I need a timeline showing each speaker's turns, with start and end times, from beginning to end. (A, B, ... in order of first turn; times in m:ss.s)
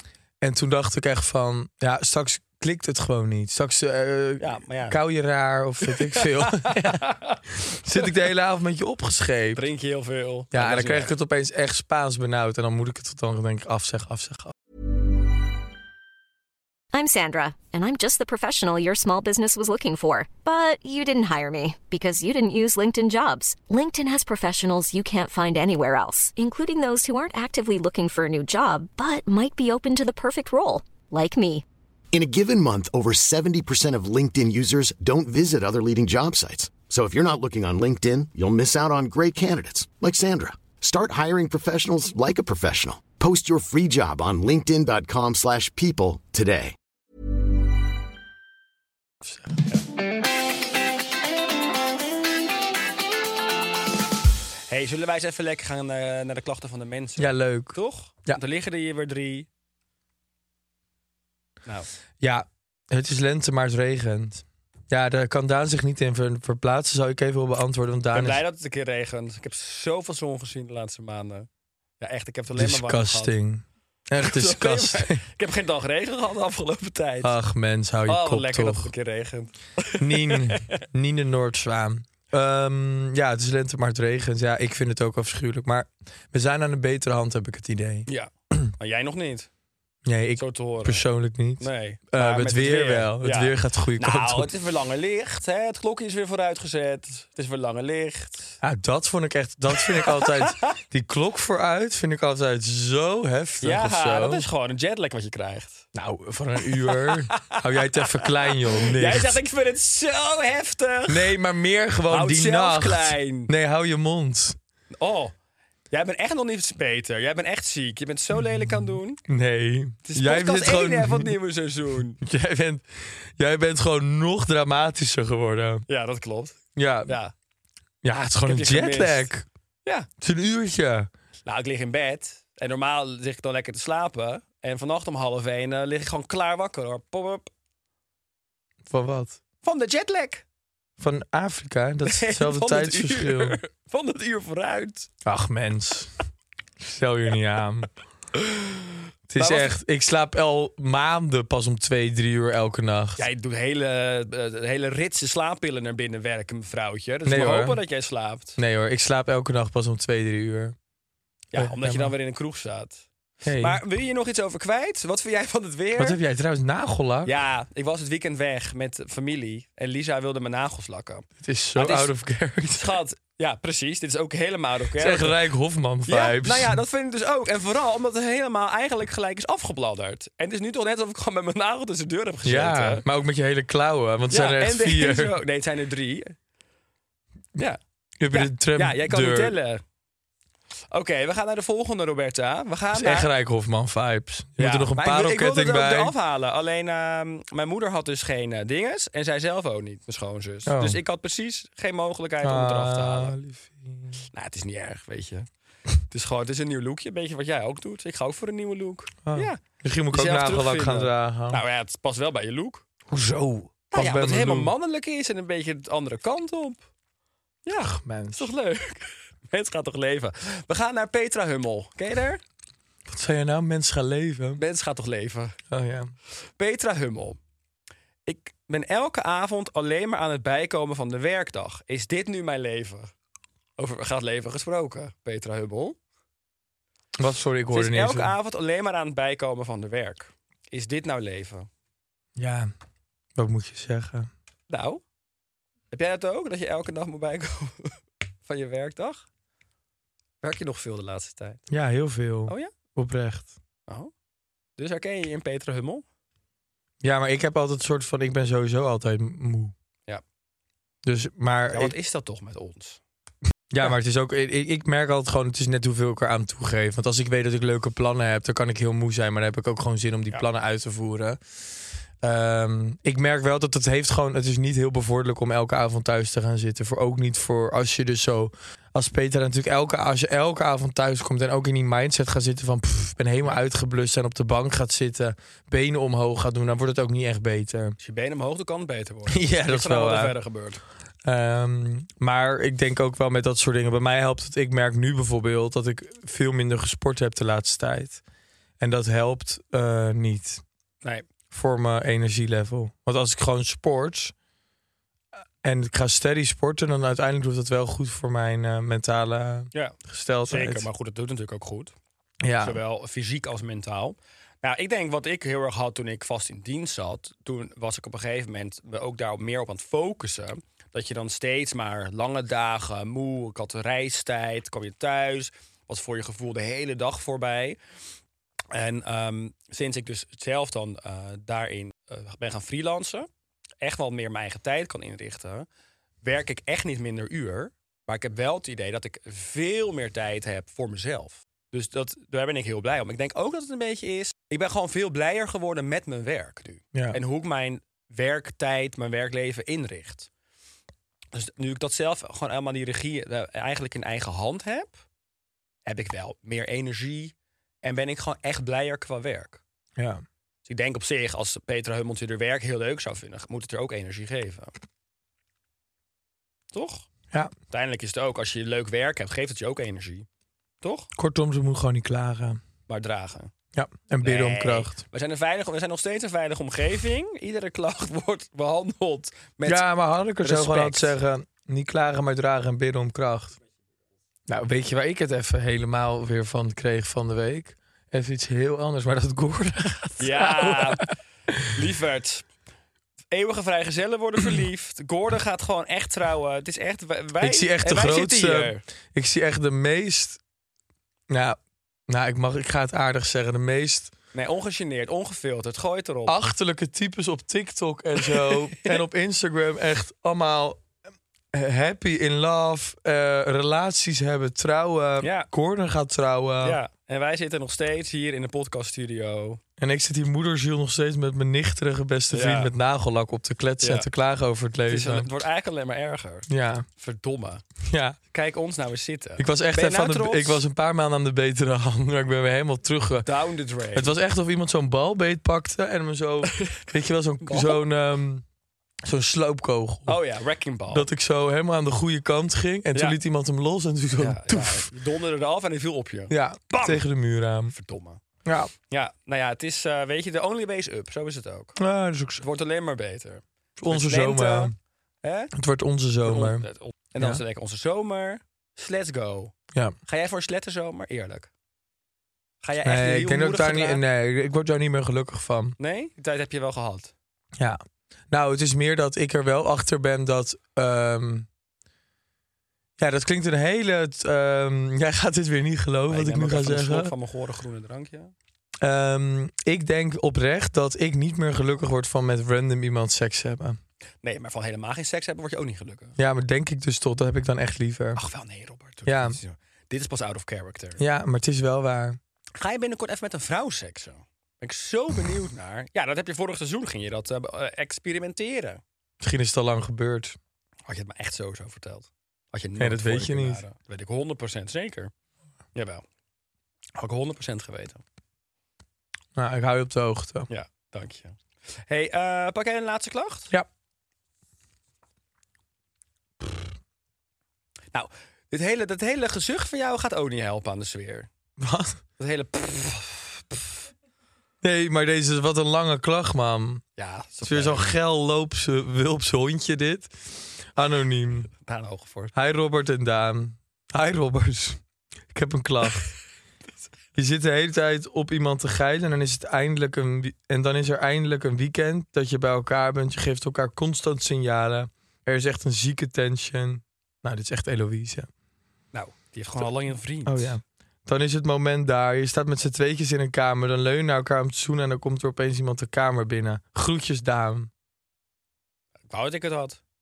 0:00.4-0:07.1 A
0:04.4-0:05.0 B
0:05.8-0:07.4 B
0:07.6-0:09.6 A
0:09.5-0:11.1 B
0:10.5-0:14.5 A
0:16.9-0:31.6 C
0:32.1-0:46.7 D
0:49.2-0:49.6 A
0:54.7-0:59.5 B
0:57.2-0:58.4 A
1:02.2-1:08.4 A
1:08.1-1:11.5 B
1:12.0-1:13.3 B
1:12.5-1:15.2 A
1:14.2-1:17.3 B
1:17.2-1:18.9 A
1:18.1-1:20.8 B
1:20.0-1:28.7 A
1:28.1-1:29.5 B
1:30.0-1:34.5 A
1:30.4-1:31.0 B
1:31.6-1:38.6 B
1:38.6-1:44.4 A
1:39.8-1:40.7 B
1:43.6-1:45.9 B
1:45.9-1:49.4 A
1:46.8-1:51.4 B
1:51.1-1:54.6 A
1:52.1-1:53.5 B
1:55.0-1:55.3 B
1:55.9-1:59.2 B
1:58.8-2:01.3 A
2:00.0-2:02.2 B
2:02.2-2:05.8 A
2:05.9-2:07.3 B
2:06.7-2:07.2 A
2:08.0-2:09.4 A
2:08.4-2:09.3 B
2:10.2-2:11.1 A
2:11.4-2:17.5 B
2:18.9-2:19.4 A
2:19.6-2:20.4 B
2:21.0-2:23.6 A
2:22.0-2:25.1 B
2:25.2-2:26.1 A
2:26.8-2:27.9 A
2:28.4-2:28.8 B
2:29.3-2:33.2 A
2:29.4-2:29.7 B
2:33.2-2:38.6 B
2:37.2-2:37.8 A
2:38.6-2:40.8 A
2:41.5-2:46.2 B
2:41.5-2:42.1 A
2:43.4-2:43.8 A
2:46.0-2:47.3 A
2:47.2-2:52.1 B
2:51.4-2:52.9 A
2:52.7-2:55.4 B
2:55.0-2:56.8 A
2:56.0-3:03.0 B
3:02.4-3:05.4 A
3:04.3-3:06.3 B
3:08.2-3:09.6 A
3:08.3-3:09.8 B
3:10.9-3:13.3 B
3:12.9-3:16.1 A
3:14.6-3:23.4 B
3:20.6-3:21.0 A
3:22.4-3:24.2 A
3:24.3-3:25.5 B
3:26.1-3:32.8 B
3:29.2-3:31.6 A
3:33.1-3:34.7 A
3:33.9-3:36.8 B
3:37.6-3:42.4 B
3:37.8-3:38.5 A
3:43.1-3:44.6 A
3:44.6-3:45.6 B
3:45.7-3:46.1 A
3:46.6-3:47.4 B
3:48.2-3:53.1 B
3:53.8-3:56.0 B
3:57.2-3:58.3 A
3:57.7-4:01.7 B
4:02.4-4:02.7 A
4:03.3-4:04.3 A
4:04.7-4:05.0 B
4:05.9-4:09.2 B
4:10.4-4:11.7 B
4:11.7-4:13.5 A
4:12.5-4:12.7 B
4:14.8-4:16.0 B
4:17.0-4:19.7 A
4:21.0-4:21.9 A
4:21.7-4:23.0 B
4:23.7-4:31.4 A
4:32.2-4:48.0 A
4:48.0-4:50.8 B
4:49.3-4:50.4 A
4:51.2-4:58.2 A
4:58.8-5:00.6 A
5:01.5-5:04.3 A
5:05.6-5:10.9 A
5:09.7-5:11.9 B
5:12.4-5:12.8 A
5:12.6-5:27.8 B
5:28.7-5:33.3 B
5:33.8-5:35.7 B
5:36.2-5:50.3 B
5:51.3-5:55.0 B
5:55.8-5:59.6 B
6:00.0-6:00.2 A
6:00.6-6:04.7 B
6:06.7-6:07.0 B
6:07.7-6:10.3 B
6:10.8-6:11.1 B
6:11.2-6:12.6 A
6:12.9-6:13.5 B
6:13.7-6:15.0 A
6:14.2-6:19.9 B
6:19.6-6:23.6 A
6:20.4-6:21.2 B
6:24.5-6:31.1 A
6:30.2-6:31.1 B
6:31.7-6:32.5 B
6:33.3-6:38.8 B
6:37.4-6:40.4 A
6:41.3-6:44.1 A
6:44.3-6:46.4 B
6:46.3-6:50.8 A
6:48.2-6:49.0 B
6:51.5-6:56.8 A
6:55.2-6:55.5 B
6:56.6-6:59.6 B
6:59.8-7:05.3 A
7:02.3-7:02.7 B
7:03.8-7:04.1 B
7:04.9-7:07.6 B
7:06.5-7:06.8 A
7:07.8-7:08.2 A
7:08.3-7:10.6 B
7:09.4-7:13.3 A
7:13.2-7:14.1 B
7:13.9-7:18.4 A
7:16.6-7:16.8 B
7:17.4-7:17.8 B
7:19.0-7:20.2 A
7:20.1-7:21.1 B
7:20.9-7:24.9 A
7:24.2-7:27.0 B
7:26.3-7:27.7 A
7:27.7-7:28.2 B
7:28.4-7:28.7 A
7:28.9-7:31.8 B
7:31.8-7:32.4 A
7:32.4-7:35.5 B
7:33.8-7:34.7 A
7:35.5-7:36.6 A
7:36.2-7:39.5 B
7:40.0-7:41.5 B
7:42.6-7:44.0 B
7:42.8-7:45.8 A
7:45.8-7:47.1 B
7:47.6-7:51.5 A
7:53.0-7:57.1 A
7:56.1-7:58.3 B
7:58.8-8:03.8 A
8:04.2-8:06.2 B
8:06.2-8:08.2 A
8:08.2-8:11.0 B
8:09.0-8:09.4 A
8:11.0-8:12.2 A
8:12.6-8:18.8 B
8:19.2-8:20.4 A
8:20.9-8:25.1 B
8:22.8-8:23.6 A
8:25.7-8:26.0 B
8:27.0-8:28.0 B
8:29.3-8:30.5 A
8:30.5-8:33.5 B
8:37.9-8:41.3 B
8:41.6-8:42.0 A
8:42.2-8:43.7 B
8:44.6-8:46.8 A
8:47.0-8:47.9 B
8:47.4-8:51.5 A
8:51.6-8:52.3 B
8:52.3-8:54.8 A
8:55.3-8:56.1 A
8:57.2-9:08.3 A
9:08.9-9:10.6 B
9:10.2-9:17.7 A
9:19.1-9:19.8 B